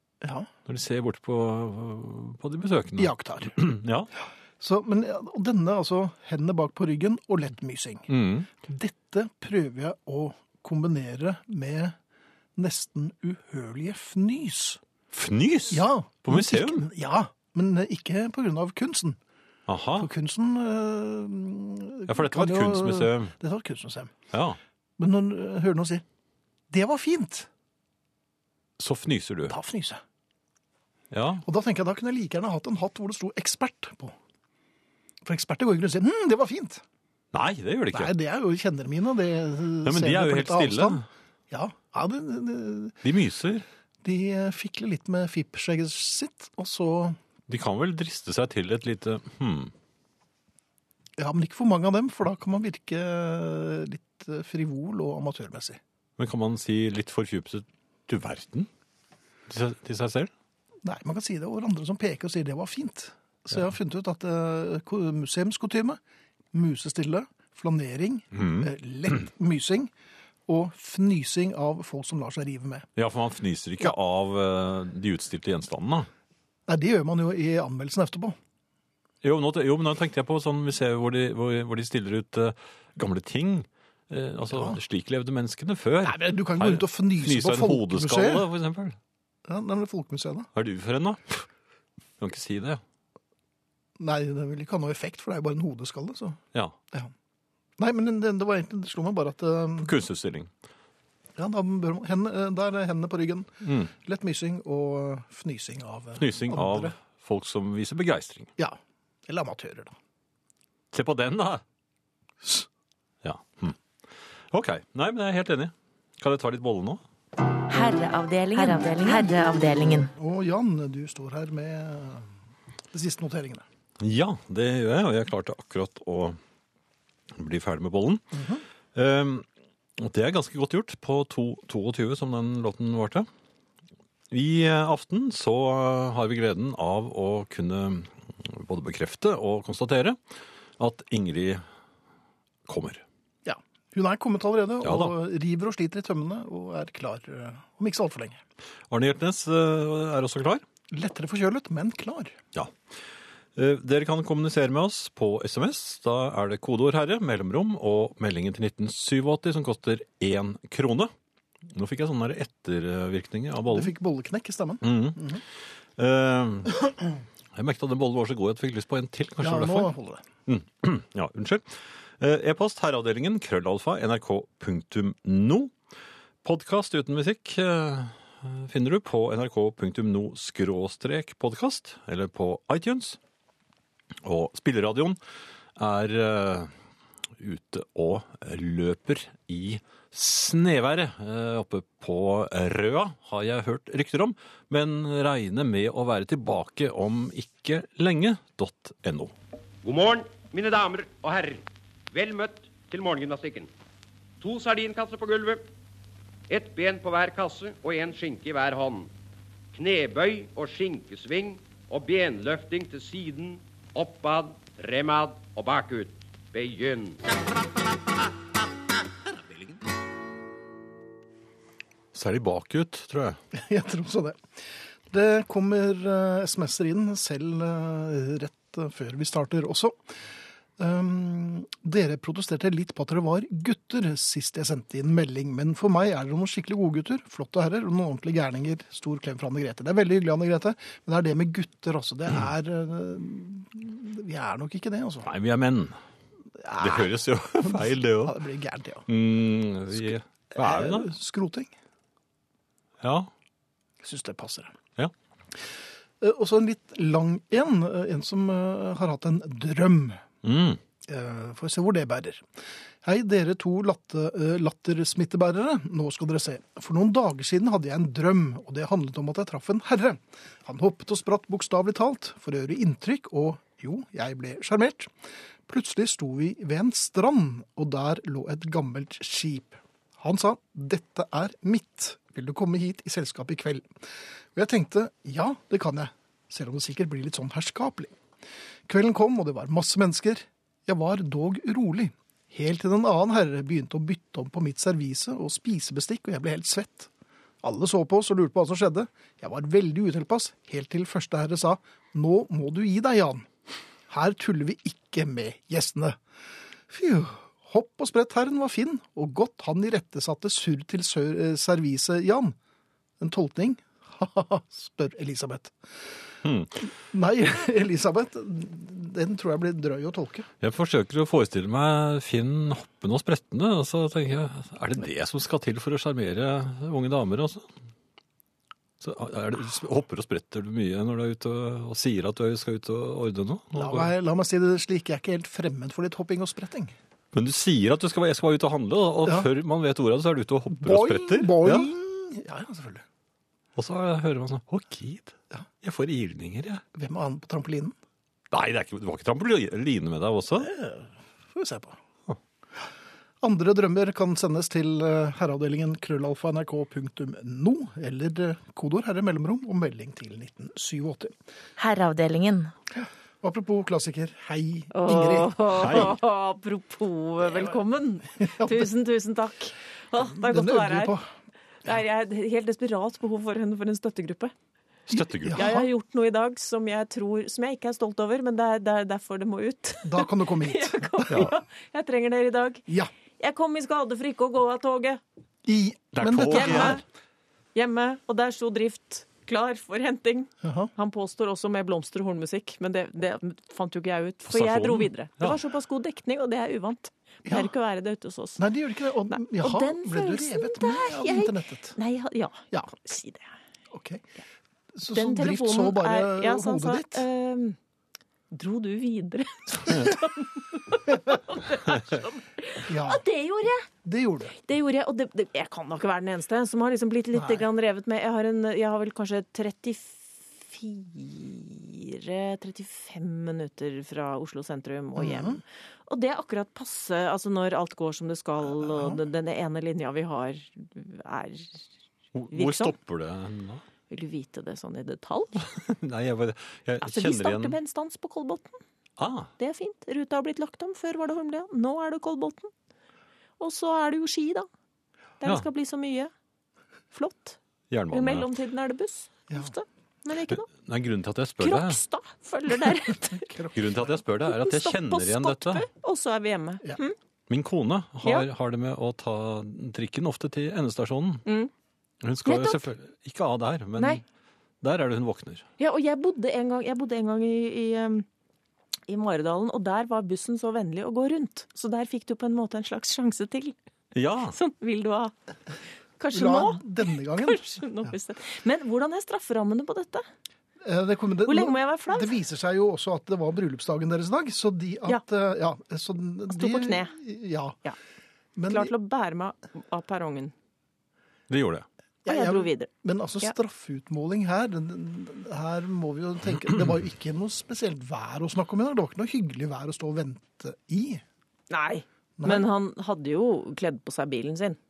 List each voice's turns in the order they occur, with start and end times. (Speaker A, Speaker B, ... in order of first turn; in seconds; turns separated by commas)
Speaker A: 0.2-0.5, Speaker B: 0.7-4.1, Speaker A: 3.0-3.6, Speaker A: 4.6-8.1, Speaker B: 8.1-8.5, Speaker A: 8.6-12.0, Speaker A: 12.6-14.8, Speaker B: 15.1-16.9, Speaker A: 15.7-19.2, Speaker B: 19.7-20.1, Speaker A: 20.0-24.2, Speaker B: 22.1-23.3, Speaker B: 24.3-24.6, Speaker A: 25.0-26.0, Speaker A: 26.7-27.5, Speaker B: 28.8-29.6, Speaker A: 29.5-30.0, Speaker B: 31.1-31.4, Speaker A: 31.4-34.1, Speaker A: 35.2-36.8, Speaker B: 37.3-38.1, Speaker A: 37.9-43.0, Speaker B: 39.9-41.1, Speaker B: 43.0-43.6, Speaker A: 44.0-47.2, Speaker B: 47.5-49.7, Speaker A: 51.2-55.8, Speaker B: 56.2-58.7, Speaker B: 59.5-60.3, Speaker A: 60.8-66.0, Speaker A: 66.5-69.9, Speaker B: 68.3-68.7, Speaker A: 70.5-72.9, Speaker B: 73.0-76.1, Speaker A: 76.7-78.4, Speaker B: 79.2-89.0, Speaker A: 84.5-84.8, Speaker A: 86.0-88.5, Speaker A: 89.5-90.5, Speaker B: 90.5-91.5, Speaker B: 92.2-92.8, Speaker A: 94.0-96.4, Speaker A: 97.8-99.9, Speaker B: 99.8-100.5, Speaker A: 101.4-106.9, Speaker B: 103.6-103.9, Speaker B: 106.2-108.5, Speaker A: 108.6-110.0, Speaker B: 110.9-111.6, Speaker B: 113.2-113.8, Speaker B: 114.5-117.0, Speaker C: 117.7-120.1, Speaker A: 120.2-122.3, Speaker A: 122.9-123.7, Speaker B: 124.0-126.4, Speaker B: 127.4-128.4, Speaker A: 128.3-128.6, Speaker B: 128.9-129.4, Speaker B: 130.0-133.3, Speaker B: 134.3-140.2, Speaker B: 140.8-141.6, Speaker B: 142.7-143.0, Speaker A: 143.4-148.4, Speaker B: 144.8-145.2, Speaker B: 148.9-150.6, Speaker A: 150.9-152.4, Speaker B: 153.6-161.1, Speaker B: 161.7-163.9, Speaker A: 163.7-165.4, Speaker B: 164.8-165.2, Speaker B: 166.0-166.9, Speaker B: 167.6-169.9, Speaker A: 169.4-170.2, Speaker B: 170.5-175.7, Speaker B: 176.4-183.2, Speaker B: 184.2-185.2, Speaker B: 185.8-186.7, Speaker B: 187.4-199.3, Speaker D: 199.8-203.7, Speaker D: 204.4-205.6, Speaker D: 206.5-209.1, Speaker D: 209.7-217.2, Speaker B: 222.1-223.4, Speaker A: 223.5-224.4, Speaker A: 225.1-230.0, Speaker A: 230.8-245.3, Speaker B: 245.2-246.0, Speaker A: 246.6-249.1, Speaker B: 246.8-248.4, Speaker B: 249.1-251.1, Speaker A: 249.9-251.7, Speaker B: 253.0-253.3, Speaker A: 254.0-254.8, Speaker A: 256.2-260.2, Speaker B: 260.4-260.8, Speaker A: 261.1-262.5, Speaker A: 263.0-275.1, Speaker A: 275.7-283.9, Speaker A: 284.5-288.1, Speaker A: 288.9-297.1, Speaker A: 297.6-303.5, Speaker A: 304.1-306.2, Speaker A: 306.9-312.6, Speaker A: 313.2-316.1, Speaker B: 316.4-316.9, Speaker A: 317.1-320.5, Speaker B: 320.6-327.7, Speaker B: 329.0-334.1, Speaker A: 333.7-337.0, Speaker B: 337.3-341.9, Speaker A: 340.7-343.0, Speaker B: 343.8-346.8, Speaker A: 346.9-347.9, Speaker B: 348.5-350.7, Speaker A: 350.6-352.0, Speaker A: 353.4-361.3, Speaker C: 361.8-362.7, Speaker A: 362.9-366.1, Speaker E: 364.9-371.1, Speaker B: 365.7-366.2, Speaker A: 368.4-368.9, Speaker A: 370.2-371.3, Speaker E: 371.9-374.5, Speaker B: 375.1-375.6, Speaker A: 375.1-375.9, Speaker E: 375.5-382.8, Speaker A: 380.1-381.5, Speaker E: 383.4-385.2, Speaker A: 385.6-387.0, Speaker B: 386.1-387.0, Speaker E: 386.5-387.0, Speaker E: 387.8-398.6, Speaker A: 390.6-390.9, Speaker B: 394.5-395.6, Speaker A: 397.4-397.7, Speaker A: 398.6-402.0, Speaker E: 399.3-403.5, Speaker A: 403.9-404.3, Speaker A: 404.9-407.2, Speaker E: 405.1-407.8, Speaker E: 408.5-413.9, Speaker A: 412.9-413.2, Speaker A: 414.0-414.6, Speaker E: 414.6-431.9, Speaker A: 417.3-417.6, Speaker A: 425.2-425.6, Speaker A: 428.7-429.2, Speaker B: 432.4-433.8, Speaker E: 432.5-432.9, Speaker E: 434.1-435.7, Speaker B: 435.8-437.8, Speaker E: 437.0-438.8, Speaker B: 439.2-439.5, Speaker E: 439.6-442.7, Speaker E: 443.6-444.7, Speaker E: 445.4-446.3, Speaker E: 447.1-447.6, Speaker B: 447.9-448.5, Speaker E: 448.1-450.7, Speaker B: 450.5-452.0, Speaker E: 451.6-453.5, Speaker A: 453.4-454.1, Speaker B: 453.7-455.9, Speaker E: 454.5-457.2, Speaker B: 457.5-461.5, Speaker E: 461.5-461.7, Speaker B: 462.2-464.2, Speaker E: 462.5-462.9, Speaker B: 464.8-465.7, Speaker E: 465.8-468.2, Speaker E: 469.1-473.8, Speaker B: 474.1-474.6, Speaker E: 474.5-475.3, Speaker E: 476.2-480.2, Speaker A: 476.3-478.1, Speaker A: 480.8-487.8, Speaker E: 481.5-482.4, Speaker E: 486.5-487.1, Speaker A: 488.6-488.9, Speaker E: 488.7-490.5, Speaker B: 491.5-491.9, Speaker A: 492.2-501.2, Speaker E: 492.3-492.9, Speaker E: 501.7-504.8, Speaker A: 502.4-502.7